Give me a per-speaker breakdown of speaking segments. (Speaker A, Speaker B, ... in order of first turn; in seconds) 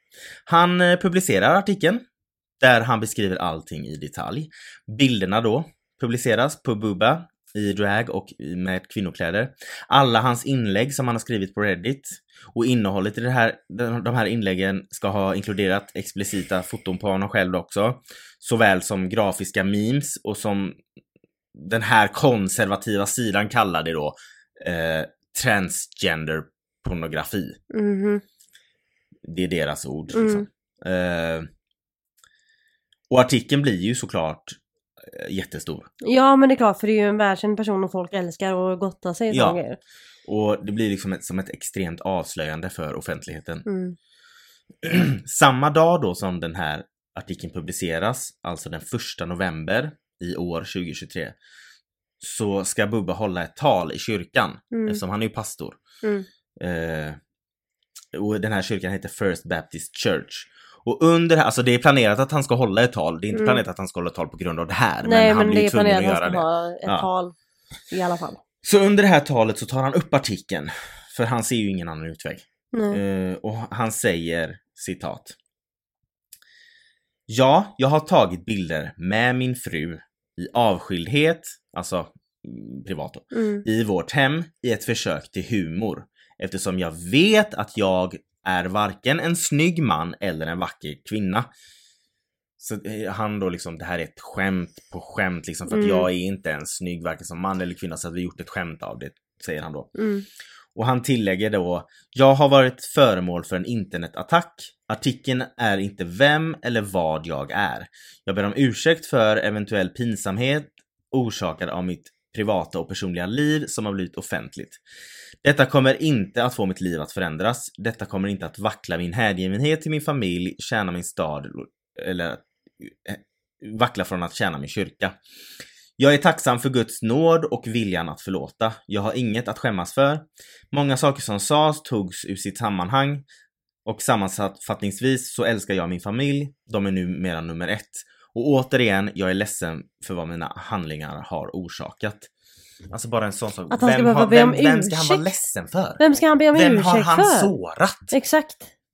Speaker A: 0.5-2.0, 2.6-20.8, 21.5-27.6, 29.2-31.5, 33.1-35.9, 39.3-39.6, 40.3-43.6, 44.8-51.4, 52.2-55.8, 56.6-57.2, 58.1-67.1, 68.6-75.4, 77.3-91.5, 92.6-99.9, 100.8-114.8, 115.4-125.2, 126.0-133.2, 133.8-142.3, 142.9-146.0, 146.5-148.1
Speaker B: 27.7-28.2, 30.1-30.5, 36.0-39.8, 43.7-44.0, 54.7-55.0, 63.3-63.6, 65.0-67.3, 67.9-68.4, 72.7-73.0, 83.3-83.6, 95.7-96.1, 100.0-100.2, 143.7-145.3, 146.0-147.5, 148.1-148.7